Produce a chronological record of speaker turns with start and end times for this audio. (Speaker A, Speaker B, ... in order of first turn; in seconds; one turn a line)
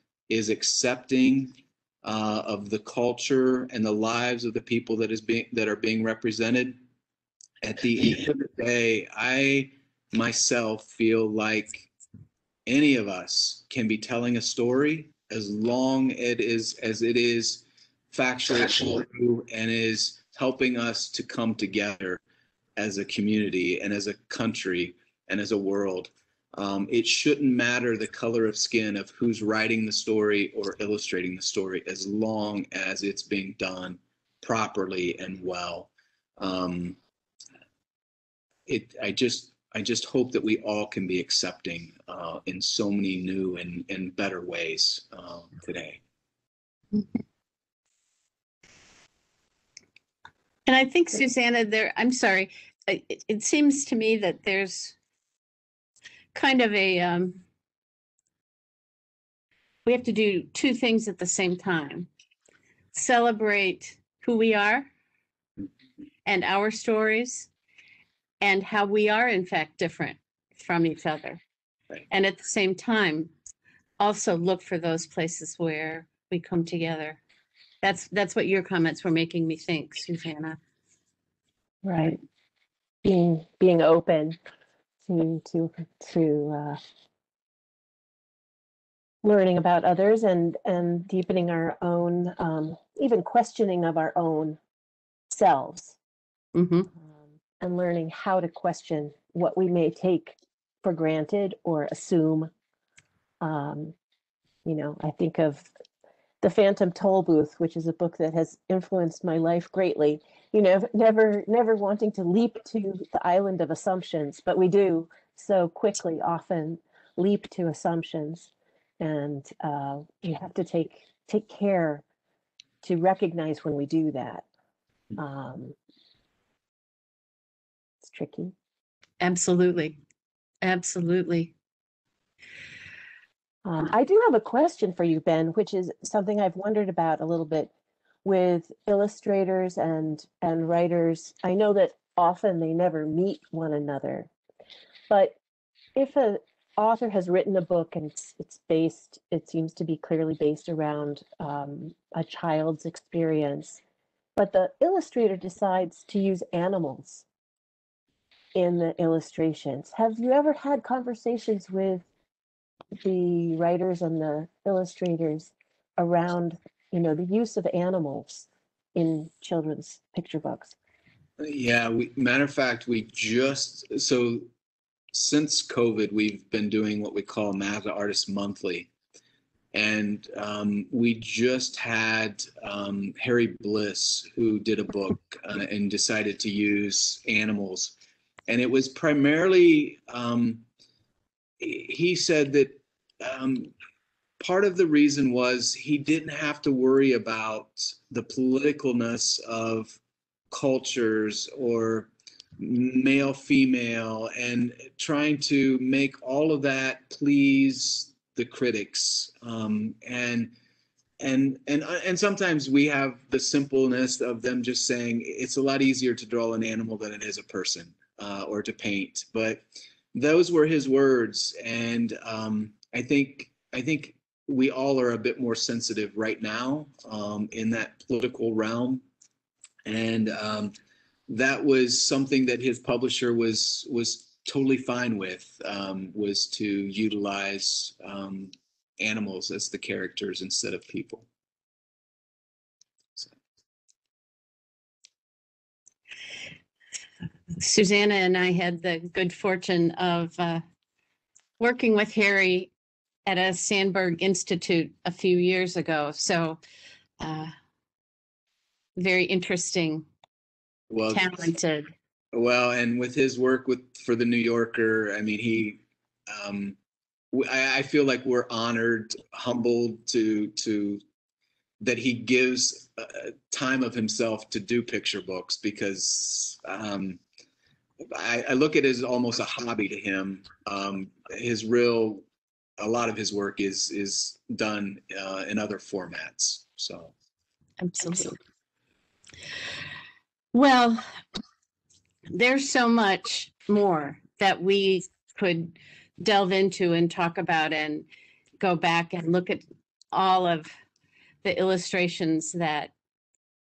Speaker A: 0.3-6.8
Speaker A: 7.6-11.9
Speaker A: 12.7-22.2
Speaker A: 22.8-37.0
Speaker A: 38.6-46.0
Speaker B: 50.7-55.0
Speaker B: 56.3-57.4
Speaker B: 59.8-62.1
Speaker B: 62.9-64.9
Speaker B: 66.2-67.5
Speaker B: 68.4-71.4
Speaker B: 72.1-73.3
Speaker B: 74.0-77.2
Speaker B: 77.8-80.6
Speaker C: 81.8-82.2
Speaker C: 83.0-84.4
Speaker C: 85.1-86.8
Speaker C: 89.2-94.6
Speaker C: 95.3-96.0
Speaker B: 96.5-96.9
Speaker C: 97.6-102.5
Speaker C: 103.4-103.9
Speaker C: 104.6-105.7
Speaker C: 106.4-122.0
Speaker C: 122.8-124.5
Speaker C: 125.2-125.8
Speaker C: 128.0-128.5
Speaker B: 129.2-129.9
Speaker B: 130.6-131.5
Speaker C: 133.6-137.7
Speaker C: 138.2-144.3
Speaker C: 145.1-145.4
Speaker C: 145.9-153.8
Speaker C: 154.3-157.2
Speaker C: 158.5-162.1
Speaker C: 163.0-170.7
Speaker A: 171.4-174.5
Speaker A: 175.1-178.9
Speaker A: 179.7-187.9
Speaker A: 188.5-190.6
Speaker A: 191.6-193.7
Speaker A: 194.4-200.0
Speaker A: 200.5-210.5
Speaker A: 211.2-229.0
Speaker A: 229.8-230.7
Speaker A: 231.3-241.2
Speaker B: 247.6-250.6
Speaker B: 251.6-252.7
Speaker B: 253.2-256.6
Speaker B: 257.2-257.5
Speaker B: 259.0-260.1
Speaker A: 260.9-261.5
Speaker B: 261.1-261.9
Speaker A: 262.3-266.8
Speaker A: 267.3-271.0
Speaker A: 271.8-277.2
Speaker A: 278.1-282.2
Speaker A: 282.8-287.1
Speaker B: 287.8-288.4
Speaker B: 290.5-291.0
Speaker B: 292.3-298.1
Speaker B: 298.6-300.7
Speaker B: 301.4-302.9